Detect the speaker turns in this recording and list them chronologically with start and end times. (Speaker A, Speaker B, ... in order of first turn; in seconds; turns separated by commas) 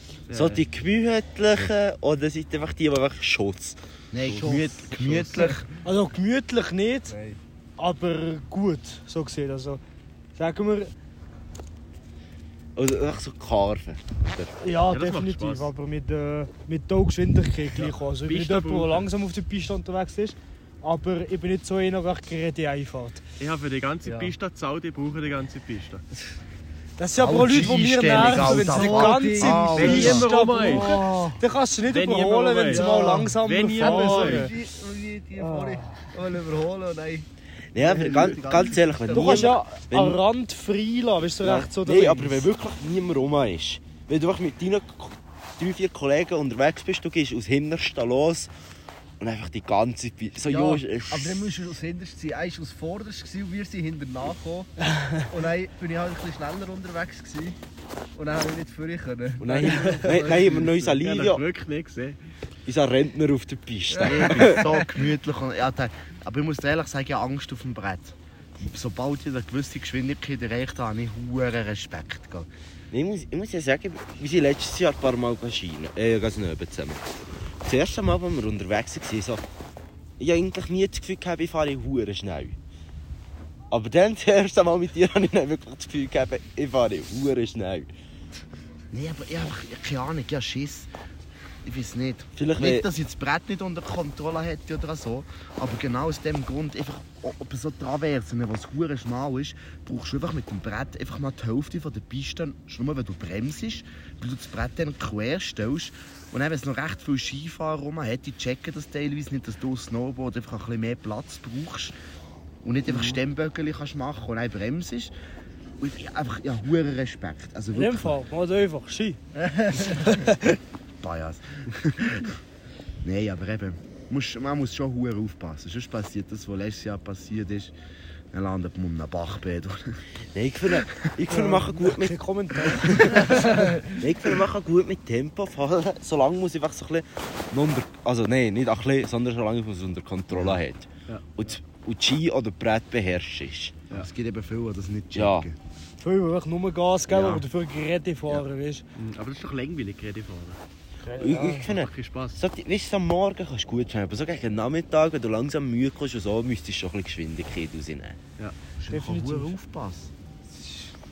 Speaker A: 0.3-0.6, Speaker B: 0.3-5.3, Speaker C: 4.1-5.6, Speaker A: 5.0-5.5, Speaker D: 5.8-7.2, Speaker E: 7.1-7.4, Speaker D: 7.8-9.8, Speaker D: 10.4-10.9, Speaker B: 12.8-14.6, Speaker D: 14.6-23.2, Speaker A: 14.9-15.7, Speaker A: 17.8-19.1, Speaker A: 23.4-26.0, Speaker E: 24.1-24.3, Speaker D: 27.0-34.5, Speaker C: 27.1-30.2, Speaker E: 28.1-31.4, Speaker A: 29.8-30.9, Speaker A: 31.9-34.5, Speaker E: 32.7-37.2, Speaker D: 35.4-35.9, Speaker B: 37.7-40.2, Speaker E: 37.8-39.5, Speaker D: 39.1-42.5, Speaker B: 41.4-48.5, Speaker B: 49.2-51.6, Speaker E: 50.4-57.6, Speaker E: 58.1-60.8, Speaker B: 59.4-61.4, Speaker A: 59.6-60.0, Speaker A: 60.6-62.2, Speaker B: 62.7-64.7, Speaker E: 63.9-64.6, Speaker C: 64.0-72.5, Speaker B: 72.9-77.0, Speaker B: 77.6-79.4, Speaker B: 80.2-82.6, Speaker B: 83.7-87.9, Speaker C: 88.9-90.9, Speaker C: 91.6-111.9, Speaker B: 92.4-92.9, Speaker C: 112.6-115.1, Speaker A: 112.9-113.2, Speaker C: 115.8-118.2, Speaker D: 117.7-119.2, Speaker E: 119.4-120.0, Speaker D: 119.9-120.3, Speaker C: 121.0-122.4, Speaker C: 123.0-127.7, Speaker C: 128.3-130.0, Speaker B: 130.3-143.8, Speaker C: 130.7-131.1, Speaker D: 131.3-133.8, Speaker C: 140.3-140.6, Speaker A: 141.1-141.6, Speaker C: 143.9-145.6, Speaker B: 145.2-145.5, Speaker D: 146.0-148.8, Speaker B: 147.1-147.4, Speaker A: 148.9-150.6, Speaker D: 151.0-151.7, Speaker B: 151.2-158.2, Speaker A: 151.7-152.4, Speaker C: 158.8-160.8, Speaker D: 158.9-159.5